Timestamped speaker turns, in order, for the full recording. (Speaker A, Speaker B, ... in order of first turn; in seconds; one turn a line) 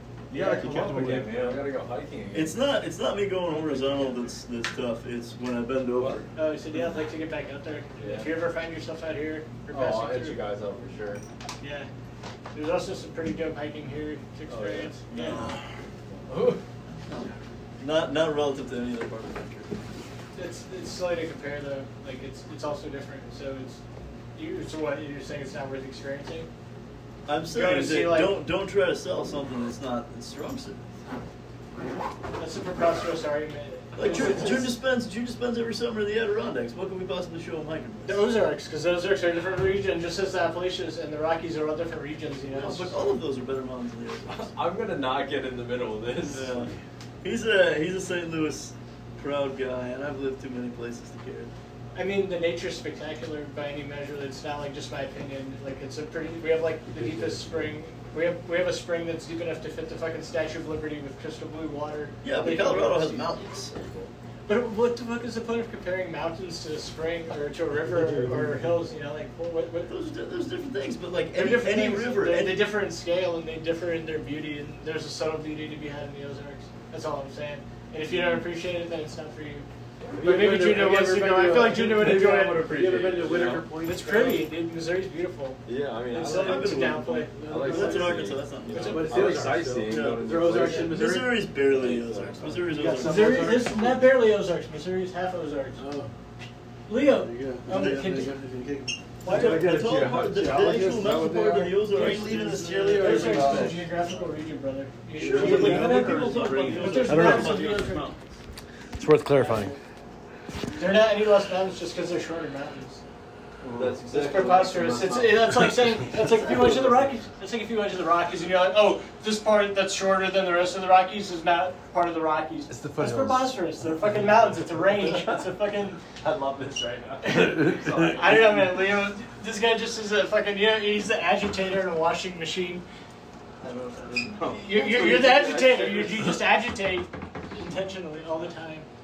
Speaker A: 0.3-1.0
Speaker B: 0.4-2.6
Speaker C: 0.6-1.6
Speaker D: 2.3-6.3
Speaker A: 3.5-4.2
Speaker B: 6.0-6.9
Speaker A: 6.3-10.5
Speaker B: 8.0-8.4
Speaker B: 9.7-11.2
Speaker A: 11.6-11.9
Speaker A: 12.5-15.4
Speaker B: 14.5-15.5
Speaker D: 15.3-15.6
Speaker B: 16.3-16.6
Speaker D: 17.8-19.8
Speaker A: 20.4-23.8
Speaker A: 24.4-26.5
Speaker D: 27.3-30.9
Speaker A: 27.5-28.4
Speaker A: 32.4-34.7
Speaker D: 34.0-38.3
Speaker A: 38.0-43.0
Speaker D: 42.5-44.5
Speaker B: 44.3-46.6
Speaker D: 46.3-51.5
Speaker A: 51.9-63.3
Speaker D: 62.2-64.1
Speaker A: 64.5-69.9
Speaker D: 69.9-72.7
Speaker A: 71.3-79.7
Speaker C: 80.1-84.5
Speaker A: 80.2-82.7
Speaker B: 81.6-83.7
Speaker A: 83.8-90.9
Speaker B: 85.7-86.9
Speaker D: 86.1-93.6
Speaker B: 87.5-90.9
Speaker C: 87.5-88.2
Speaker C: 88.7-91.9
Speaker B: 91.7-92.7
Speaker C: 92.5-94.1
Speaker A: 92.7-95.8
Speaker C: 95.8-96.1
Speaker A: 96.9-98.3
Speaker C: 97.1-99.3
Speaker D: 97.7-98.1
Speaker A: 99.2-99.8
Speaker D: 99.2-103.6
Speaker B: 99.3-103.9
Speaker C: 100.4-103.9
Speaker A: 103.0-108.1
Speaker D: 105.2-108.2
Speaker B: 105.3-107.7
Speaker C: 105.5-106.0
Speaker C: 107.1-107.8
Speaker C: 109.0-109.7
Speaker A: 110.8-113.0
Speaker B: 113.6-115.5
Speaker D: 113.7-115.3
Speaker A: 114.1-126.0
Speaker D: 116.1-117.1
Speaker C: 122.7-123.5
Speaker B: 126.8-128.4
Speaker A: 127.2-132.8
Speaker C: 127.5-128.3
Speaker D: 133.6-135.5
Speaker A: 134.6-138.9
Speaker B: 134.7-136.4